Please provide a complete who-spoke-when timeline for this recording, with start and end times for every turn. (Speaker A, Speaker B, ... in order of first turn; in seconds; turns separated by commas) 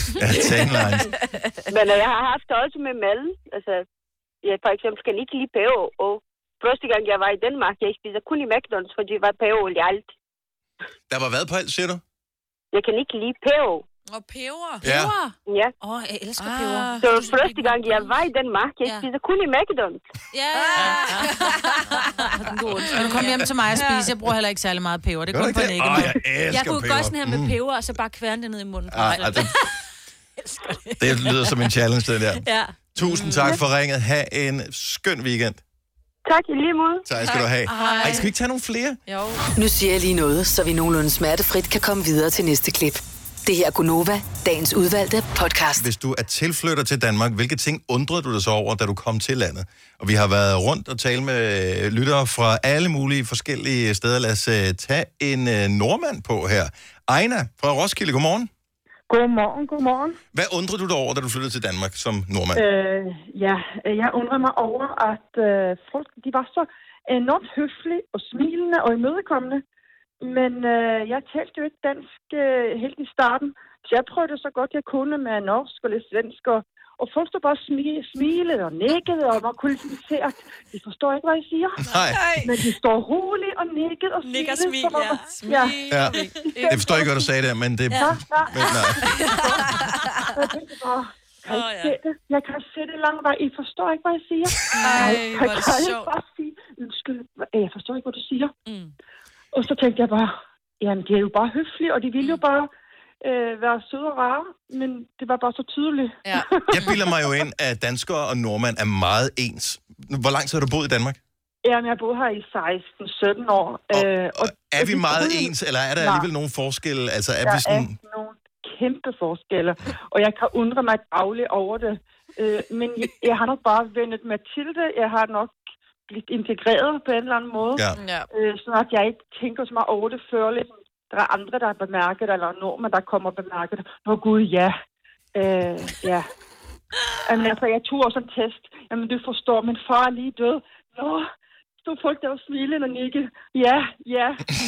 Speaker A: 0.2-1.1, Speaker B: 1.7-3.9, Speaker B: 4.4-10.1, Speaker A: 11.1-12.0, Speaker B: 12.7-13.8, Speaker C: 14.1-14.9, Speaker A: 14.8-15.1, Speaker D: 14.8-18.1, Speaker B: 15.5-15.7, Speaker C: 16.4-17.1, Speaker B: 17.0-20.0, Speaker D: 20.3-24.1, Speaker C: 20.6-21.6, Speaker E: 22.9-26.2, Speaker A: 25.3-27.6, Speaker D: 26.0-29.8, Speaker A: 28.9-29.6, Speaker D: 30.4-31.6, Speaker A: 31.0-35.6, Speaker D: 32.4-33.6, Speaker B: 36.3-37.1, Speaker A: 37.0-39.0, Speaker C: 37.6-38.3, Speaker D: 37.8-38.3, Speaker C: 39.1-39.5, Speaker F: 39.5-45.9, Speaker A: 45.8-58.5, Speaker G: 59.1-60.2, Speaker A: 60.3-62.6, Speaker G: 62.5-69.6, Speaker G: 70.2-81.8, Speaker A: 81.8-82.2, Speaker C: 82.1-82.5, Speaker G: 82.4-87.1, Speaker D: 84.2-85.2, Speaker C: 85.3-87.0, Speaker A: 85.9-86.2, Speaker A: 86.7-89.1, Speaker G: 87.9-98.5, Speaker C: 89.1-90.2, Speaker D: 89.7-90.1, Speaker D: 91.5-92.0, Speaker C: 94.8-96.1, Speaker D: 94.8-95.2, Speaker D: 98.7-98.9, Speaker G: 99.5-102.7, Speaker G: 103.2-107.3, Speaker A: 106.7-111.2, Speaker G: 111.6-116.3, Speaker A: 113.9-117.9, Speaker G: 117.4-125.6, Speaker G: 126.1-134.8, Speaker C: 128.0-128.3, Speaker G: 135.3-136.3, Speaker G: 137.2-141.3, Speaker G: 141.8-144.4